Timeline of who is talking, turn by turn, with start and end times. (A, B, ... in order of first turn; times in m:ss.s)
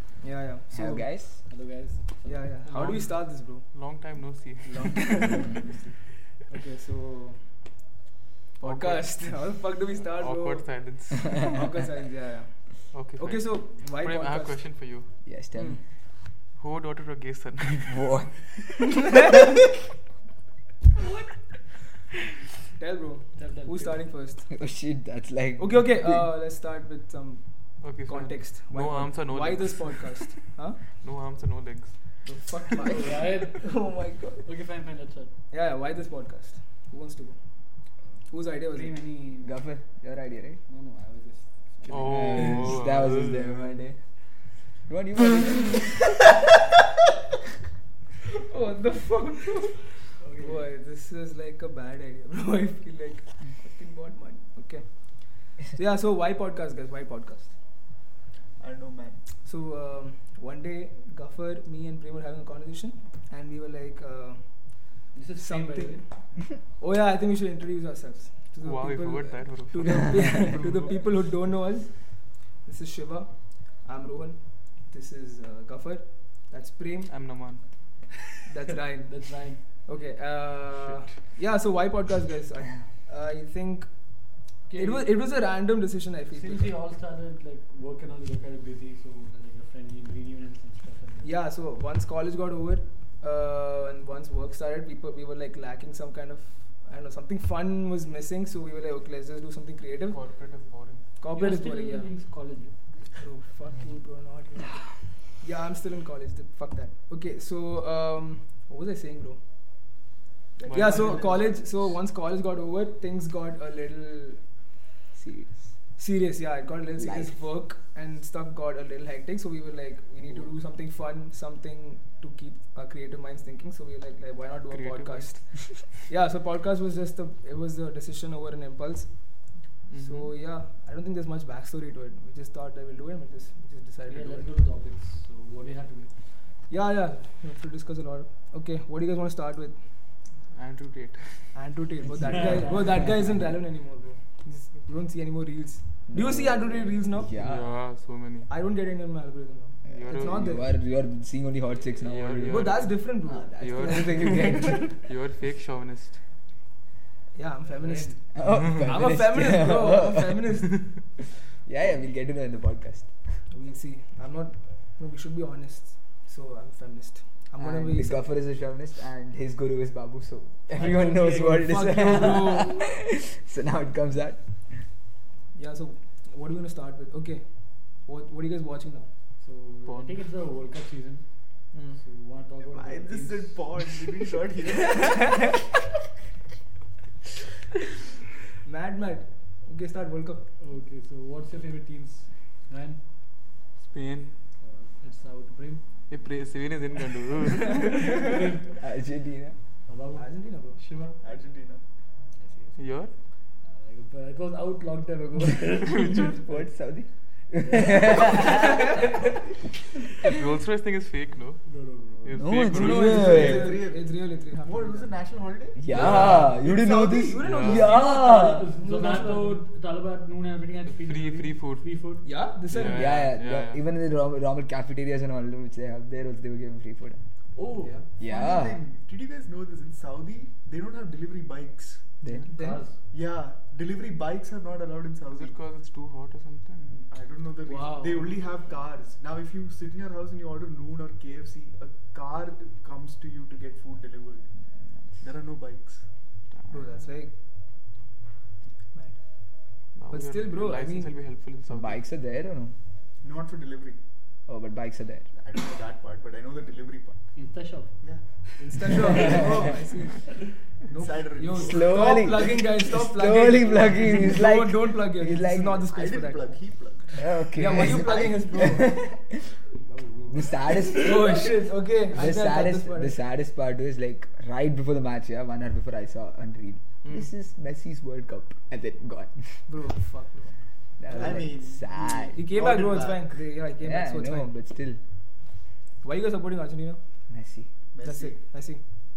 0:00.2-0:01.0 A
0:00.7-0:01.4 B
0:01.4-0:03.0 C
0:02.2-0:03.7 A
0:02.7-0:05.1 D
0:04.6-0:05.6 A
0:05.5-0:05.9 C
0:06.5-0:07.8 A
0:08.6-0:14.6 A
0:08.6-0:09.3 D
0:10.2-0:11.5 D
0:12.9-0:15.1 D
0:15.2-0:15.8 B
0:15.5-0:15.8 A
0:16.2-0:18.0 D
0:17.8-0:18.9 B
0:22.8-0:24.5 A
0:23.4-0:24.1 C
0:24.5-0:26.2 B
0:25.6-0:30.8 A
0:27.8-0:30.3 D
0:31.0-0:32.2 D
0:32.2-0:34.4 A
0:32.8-0:33.7 C
0:34.4-0:35.3 C
0:35.5-0:37.4 A
0:38.1-0:39.5 C
0:38.3-0:38.9 A
0:39.4-0:40.6 B
0:40.7-0:42.6 C
0:41.9-0:43.6 D
0:42.0-0:44.0 B
0:44.8-0:46.0 B
0:48.3-0:57.5 A
0:50.2-0:50.7 C
0:58.6-0:59.2 E
0:59.4-1:17.1 A
1:05.1-1:06.0 C
1:08.6-1:11.0 D
1:17.1-1:17.6 D
1:18.4-1:26.8 A
1:18.7-1:19.6 C
1:20.7-1:21.1 D
1:24.7-1:25.1 C
1:26.3-1:31.3 C
1:31.2-1:40.2 A
1:40.1-1:41.0 D
1:41.2-1:42.1 A
1:41.3-1:42.7 C
1:43.1-1:49.4 A
1:50.6-1:51.9 E
1:50.6-1:51.3 D
1:50.7-1:54.4 A
1:55.2-1:55.7 B
1:56.0-2:14.5 A
1:57.0-1:57.4 B
2:04.7-2:05.9 D
2:09.9-2:10.3 D
2:14.1-2:16.1 C
2:16.7-2:19.8 A
2:20.4-2:21.5 D
2:21.5-2:27.3 A
2:22.2-2:23.1 C
2:26.1-2:27.7 B
2:27.3-2:28.5 D
2:28.5-2:30.7 A
2:29.9-2:34.9 B
2:29.9-2:30.4 D
2:32.0-2:33.0 D
2:32.5-2:34.9 A
2:33.6-2:36.2 D
2:37.3-2:40.8 A
2:37.9-2:40.4 B
2:41.6-2:43.1 B
2:43.5-2:48.2 A
2:47.6-2:54.4 B
2:50.8-2:52.8 A
2:50.8-2:52.4 C
2:55.5-2:59.1 A
2:59.4-3:03.7 C
2:59.8-3:00.2 D
3:01.7-3:02.0 A
3:02.7-3:05.5 E
3:08.6-3:10.4 A
3:10.6-3:13.0 C
3:13.8-3:14.4 D
3:14.6-3:15.8 C
3:16.1-3:18.4 D
3:18.0-3:18.8 C
3:18.8-3:19.6 B
3:19.9-3:21.2 C
3:20.1-3:20.8 A
3:21.2-3:21.8 E
3:22.3-3:22.8 C
3:22.8-3:23.1 D
3:23.6-3:26.6 C
3:25.8-3:26.4 D
3:26.4-3:28.9 B
3:27.5-3:29.0 C
3:28.2-3:29.0 A
3:30.2-3:31.6 D
3:31.6-3:32.5 C
3:32.2-3:33.5 D
3:32.4-3:33.8 B
3:32.7-3:34.1 E
3:32.7-3:35.2 A
3:34.6-3:38.0 E
3:35.8-3:38.7 B
3:35.9-3:36.5 D
3:35.9-3:36.6 A
3:37.3-3:39.6 A
3:37.4-3:38.0 D
3:38.1-3:42.3 C
3:40.9-3:41.9 D
3:42.2-3:43.2 A
3:42.7-3:43.8 D
3:42.9-3:47.2 B
3:47.6-3:52.0 E
3:47.8-3:48.1 A
3:48.2-3:48.8 B
3:52.5-3:52.8 A
3:52.5-3:53.0 C
3:53.1-3:55.6 E
3:55.3-3:57.0 D
3:57.1-4:04.5 E
3:57.6-3:58.4 A
4:05.2-4:06.0 E
4:06.5-4:06.9 D
4:06.7-4:07.3 A
4:08.9-4:09.5 A
4:09.9-4:12.0 D
4:10.1-4:11.1 A
4:11.7-4:12.7 B
4:13.2-4:14.0 E
4:14.5-4:15.3 B
4:15.3-4:17.2 E
4:17.3-4:19.7 C
4:18.6-4:20.3 A
4:19.1-4:19.6 B
4:20.8-4:22.1 E
4:21.4-4:26.5 A
4:21.5-4:25.8 B
4:25.9-4:28.7 E
4:27.1-4:29.5 B
4:27.5-4:28.9 A
4:29.8-4:31.4 C
4:30.3-4:31.4 B
4:31.0-4:33.2 A
4:32.1-4:39.5 B
4:37.0-4:37.3 A
4:39.7-4:40.5 A
4:41.0-4:42.4 B
4:41.1-4:41.5 A
4:41.1-4:43.2 E
4:42.3-4:44.5 A
4:43.8-4:45.0 B
4:46.0-4:47.0 A
4:47.3-4:47.7 B
4:47.9-4:48.4 E
4:48.0-4:48.8 A